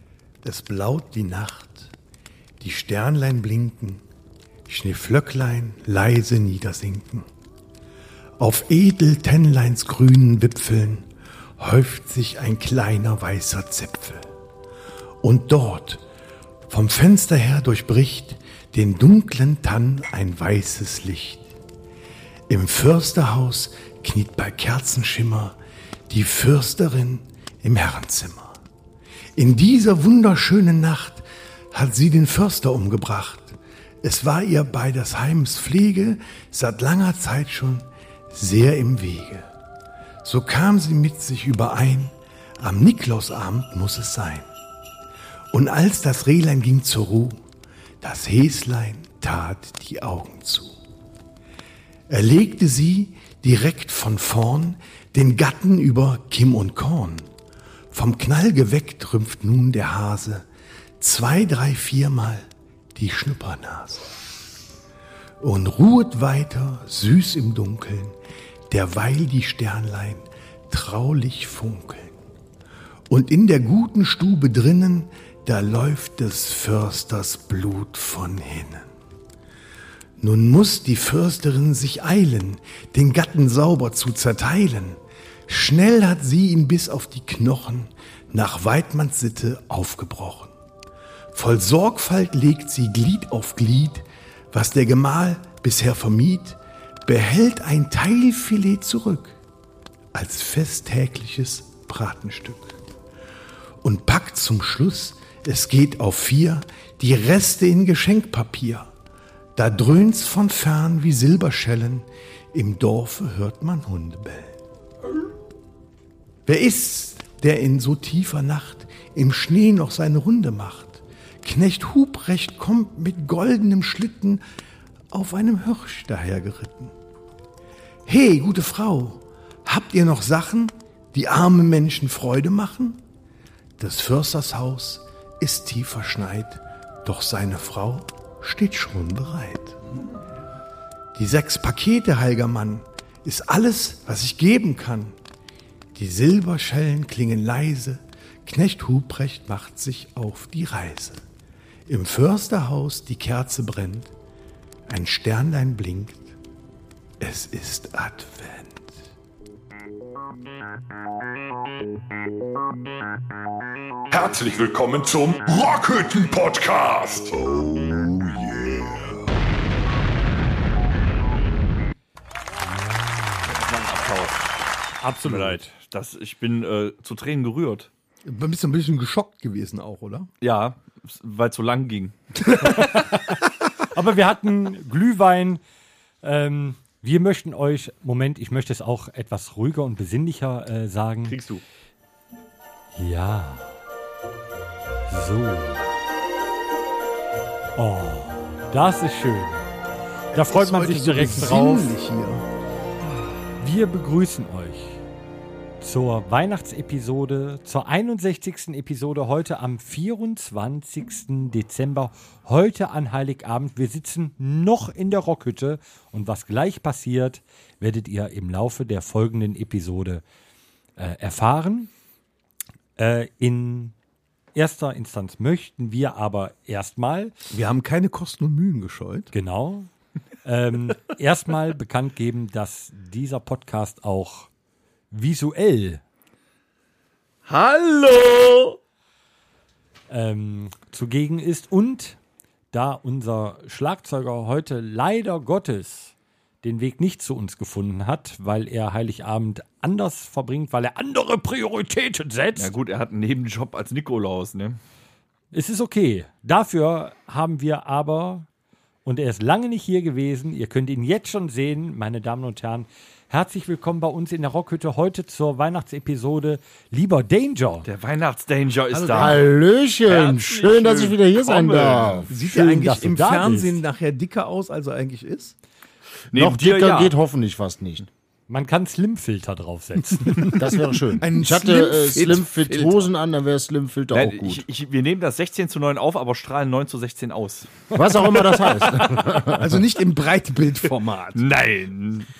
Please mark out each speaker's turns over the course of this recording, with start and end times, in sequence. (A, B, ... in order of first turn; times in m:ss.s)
0:00.4-0:01.9 A
0:02.6-0:04.0 A
0:04.7-0:07.2 A
0:08.4-0:14.2 A
0:15.2-0:16.0 A
0:16.7-0:21.4 A
0:22.5-0:25.6 A
0:26.1-0:28.6 A
0:29.4-0:39.4 A
0:40.2-0:44.5 A
0:45.5-0:47.4 A
0:48.0-0:50.8 A
0:52.1-0:57.3 A
0:57.9-1:00.4 A
1:01.0-1:04.1 A
1:05.4-1:08.1 A
1:08.7-1:12.2 A
1:13.1-1:18.9 A
1:20.2-1:30.5 A
1:31.3-1:39.3 A
1:40.1-1:42.7 A
1:43.8-1:48.9 A
1:49.6-1:54.5 A
1:56.4-2:04.4 A
2:05.1-2:06.9 A
2:08.1-2:13.0 A
2:13.8-2:19.8 A
2:21.2-2:25.1 A
2:26.0-2:31.2 A
2:31.9-2:34.1 A
2:34.9-2:36.3 A
2:37.2-2:38.9 A
2:44.1-2:49.2 B
2:52.6-2:53.6 C
2:53.5-2:54.4 D
2:55.0-2:55.7 C
2:55.2-2:57.9 D
2:58.2-3:00.3 A
3:00.4-3:02.8 D
3:02.6-3:05.6 C
3:06.2-3:11.4 C
3:11.3-3:11.6 D
3:12.9-3:13.7 C
3:15.1-3:15.8 C
3:17.8-3:19.7 C
3:20.3-3:21.9 C
3:20.3-3:22.4 A
3:23.6-3:25.0 C
3:25.8-3:40.2 C
3:41.0-3:41.9 C
3:43.0-3:43.9 C
3:44.5-3:47.3 C
3:47.5-3:49.3 A
3:49.3-3:49.9 C
3:50.4-3:54.5 C
3:55.1-3:56.0 C
3:57.5-3:58.8 D
4:00.1-4:02.2 C
4:02.7-4:12.7 C
4:12.6-4:14.8 D
4:15.5-4:18.5 C
4:19.0-4:27.9 C
4:27.8-4:29.4 D
4:28.9-4:29.4 A
4:29.1-4:32.3 E
4:30.0-4:32.3 D
4:32.3-4:35.5 A
4:32.4-4:33.8 C
4:36.3-4:37.1 D
4:36.3-4:38.1 E
4:38.5-4:40.6 C
4:40.4-4:44.6 E
4:41.2-4:43.0 A
4:44.1-4:47.7 D
4:47.9-4:49.8 E
4:49.5-4:51.4 A
4:51.4-4:52.3 D